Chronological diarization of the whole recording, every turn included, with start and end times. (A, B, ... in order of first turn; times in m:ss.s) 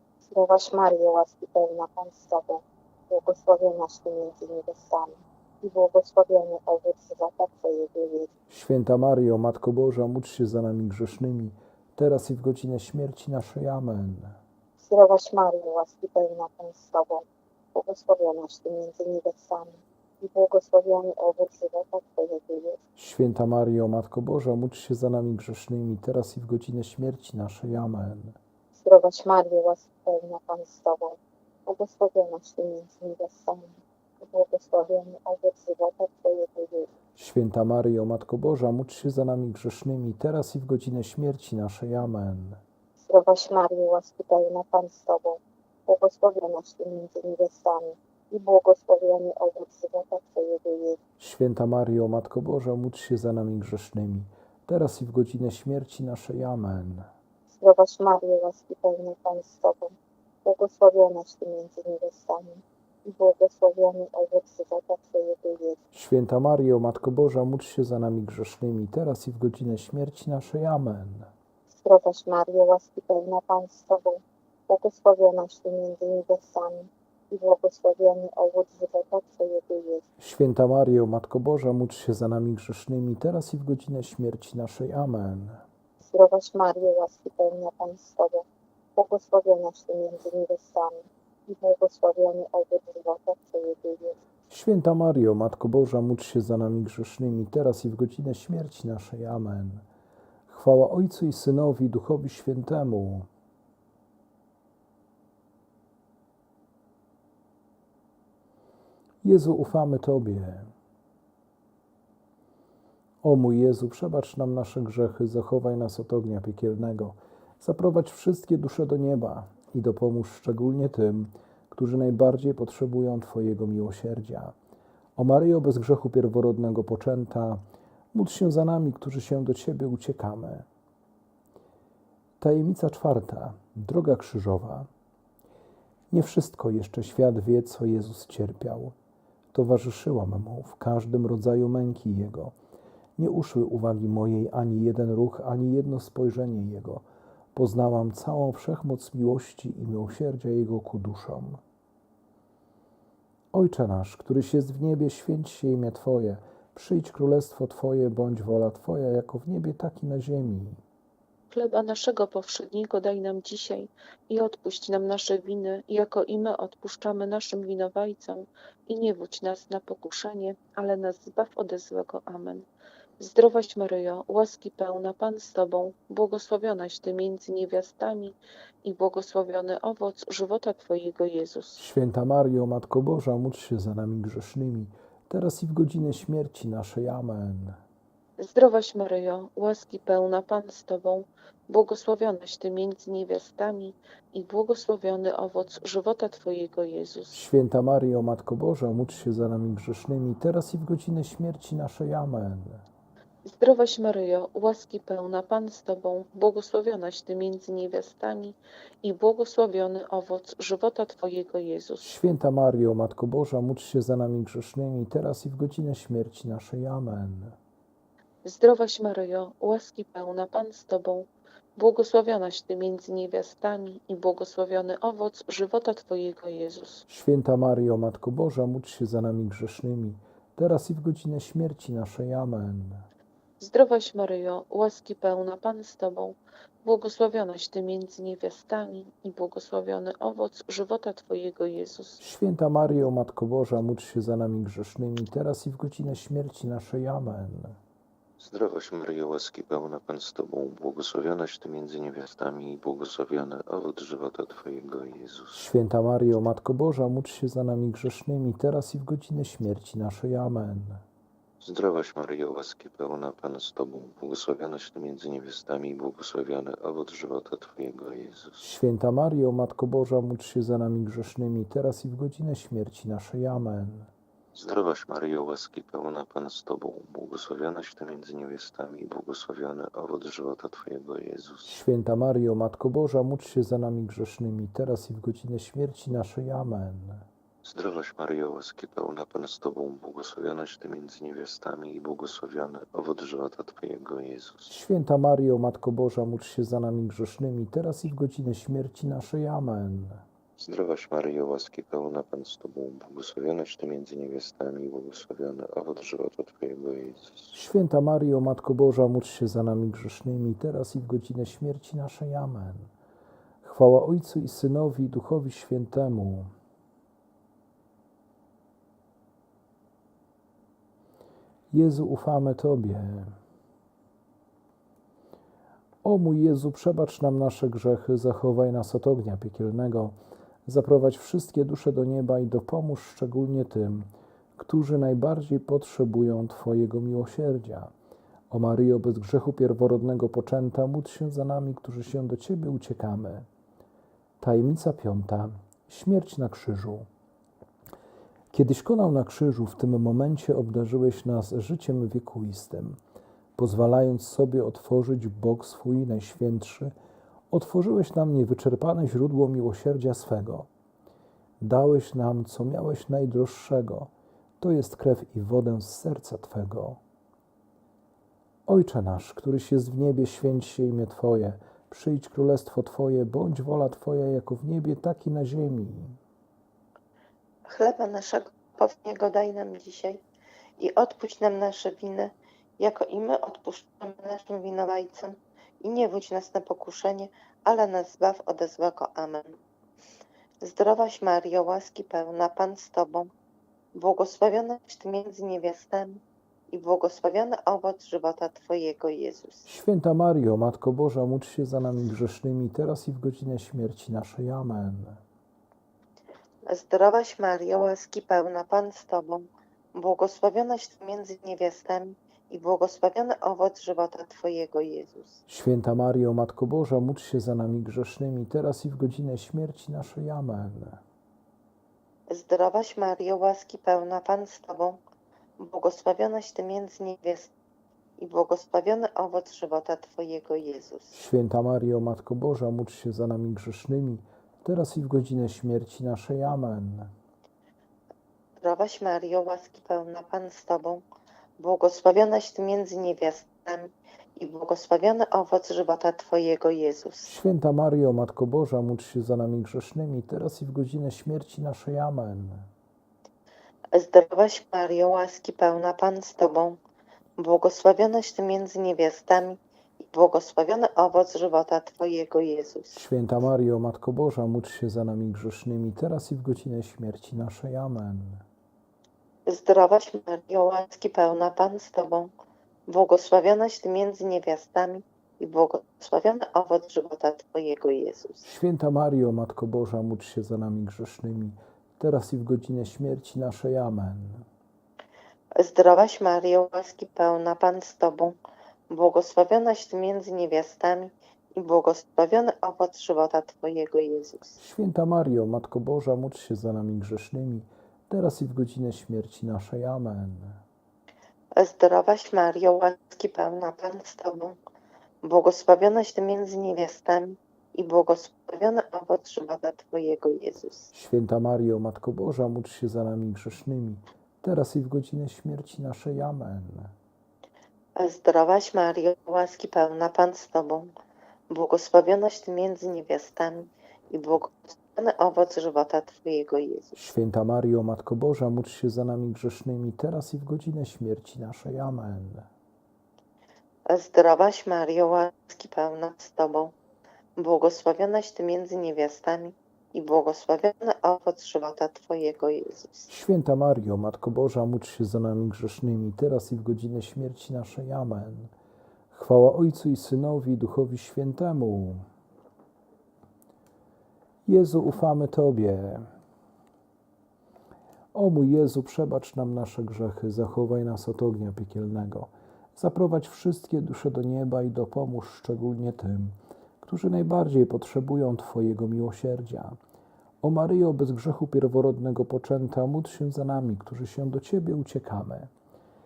0:00.2-0:08.3 A
0:08.5-0:14.4 B
0:14.8-0:22.8 A
0:23.0-0:28.4 B
0:28.8-0:36.9 A
0:37.2-0:42.6 B
0:43.0-0:51.0 A
0:51.2-0:57.1 B
0:57.5-1:05.8 A
1:05.9-1:11.3 B
1:11.8-1:20.1 A
1:20.2-1:25.6 B
1:26.0-1:34.2 A
1:34.5-1:39.9 B
1:40.5-1:43.3 B
1:49.2-1:50.7 B
1:53.2-2:04.5 B
2:05.2-2:10.7 B
2:12.4-2:14.9 B
2:16.1-2:19.0 B
2:19.5-2:22.6 B
2:23.2-2:31.6 B
2:33.5-2:40.8 B
2:41.5-2:52.7 C
2:53.2-3:01.8 C
3:01.8-3:07.8 B
3:08.4-3:17.4 C
3:17.3-3:22.8 B
3:23.5-3:32.1 C
3:32.0-3:37.6 B
3:38.4-3:47.0 C
3:47.1-3:53.1 B
3:53.6-4:02.2 C
4:02.2-4:07.8 B
4:08.4-4:15.7 D
4:15.5-4:21.0 B
4:21.6-4:28.6 D
4:28.6-4:34.1 B
4:34.6-4:41.8 D
4:41.6-4:47.2 B
4:47.6-4:54.8 D
4:54.7-5:00.2 B
5:00.6-5:07.5 D
5:07.5-5:12.9 B
5:13.6-5:16.5 B
5:21.7-5:23.4 B
5:26.0-5:30.2 B
5:30.7-5:37.9 B
5:38.5-5:43.5 B
5:44.4-5:47.1 B
5:48.5-5:53.0 B
5:53.6-5:56.9 B
5:57.5-6:00.7 B
6:01.6-6:04.1 B
6:04.6-6:07.0 B
6:08.7-6:16.2 B
6:17.7-6:20.2 E
6:20.8-6:29.6 E
6:30.6-6:33.3 E
6:34.0-6:39.7 E
6:39.7-6:45.2 B
6:46.7-6:55.4 E
6:55.5-7:01.0 B
7:02.3-7:05.0 E
7:05.6-7:07.5 E
7:08.2-7:11.2 E
7:11.1-7:17.1 B
7:18.6-7:21.0 E
7:21.6-7:27.3 E
7:27.2-7:32.7 B
7:33.9-7:36.8 E
7:37.4-7:39.6 E
7:40.1-7:43.0 E
7:42.9-7:48.4 B
7:49.5-7:52.3 E
7:52.9-7:58.4 E
7:58.4-8:04.5 B
8:05.6-8:08.4 E
8:08.9-8:14.6 E
8:14.6-8:20.6 B
8:21.6-8:24.6 E
8:25.2-8:30.9 E
8:30.9-8:36.9 B
8:38.0-8:40.9 E
8:41.5-8:47.0 E
8:47.0-8:52.5 B
8:53.9-8:56.7 E
8:57.4-9:03.1 E
9:03.1-9:08.5 B
9:09.1-9:12.0 B
9:14.5-9:16.1 B
9:18.1-9:29.8 B
9:30.4-9:35.5 B